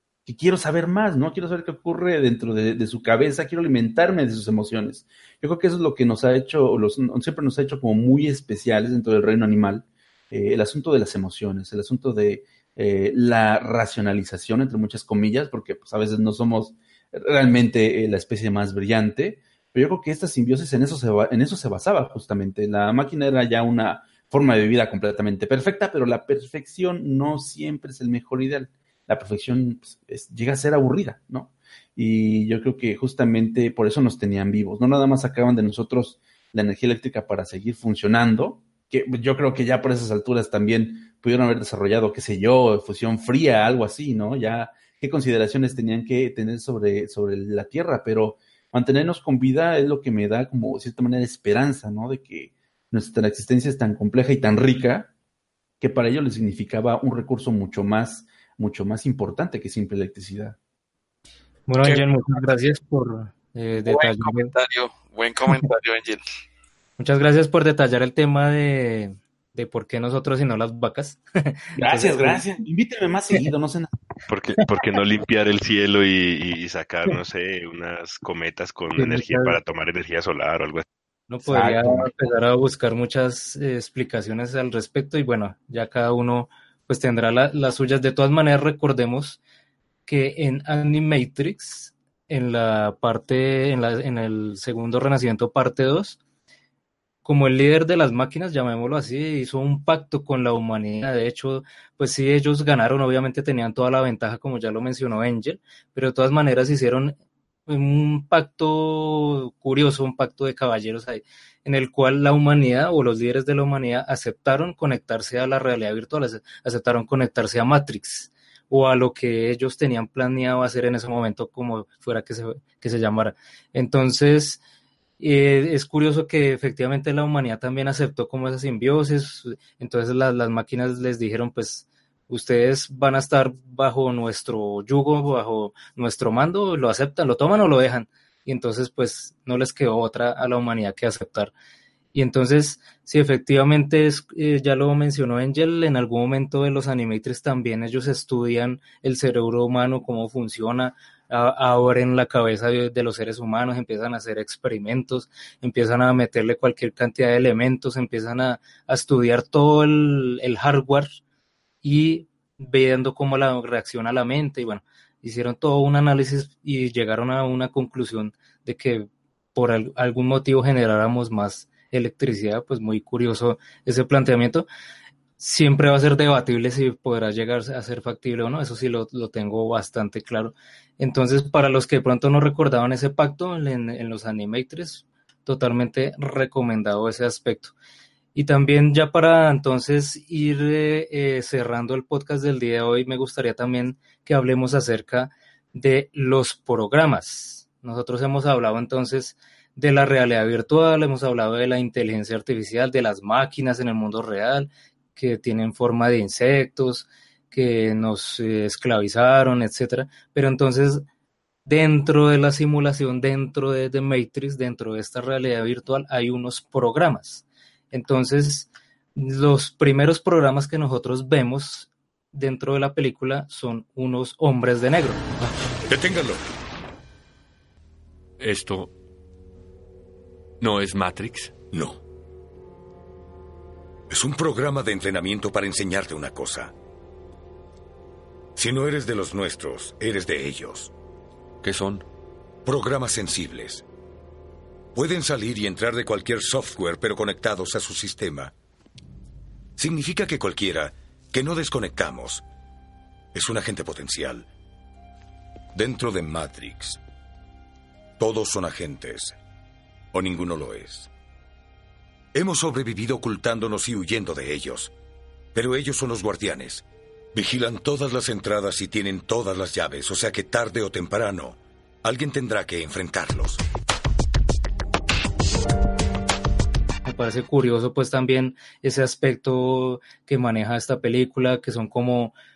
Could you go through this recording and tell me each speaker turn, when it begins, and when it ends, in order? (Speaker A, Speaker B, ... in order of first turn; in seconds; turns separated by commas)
Speaker A: 0.2-55.1, Speaker A: 55.8-60.6, Speaker B: 61.7-64.5, Speaker C: 61.8-62.5, Speaker C: 63.9-66.2, Speaker B: 67.0-72.4, Speaker A: 71.8-73.9, Speaker D: 74.3-80.8, Speaker B: 79.0-79.6, Speaker B: 81.3-89.4, Speaker A: 81.4-82.1, Speaker B: 90.0-96.2, Speaker B: 97.2-107.1, Speaker B: 107.7-124.6, Speaker B: 125.2-141.5, Speaker B: 142.1-161.2, Speaker B: 161.8-174.7, Speaker B: 175.4-187.7, Speaker B: 188.3-211.0, Speaker B: 211.6-225.2, Speaker E: 225.9-226.4, Speaker F: 228.4-228.9, Speaker F: 230.6-231.6, Speaker E: 231.7-232.0, Speaker E: 234.1-236.7, Speaker E: 238.6-240.9, Speaker F: 241.6-242.0, Speaker E: 242.6-243.8, Speaker E: 244.9-248.5, Speaker E: 249.8-252.4, Speaker E: 253.3-254.5, Speaker E: 255.7-257.0, Speaker E: 258.2-259.4, Speaker E: 260.1-261.1, Speaker E: 262.3-264.9, Speaker E: 265.5-273.6, Speaker B: 277.0-282.3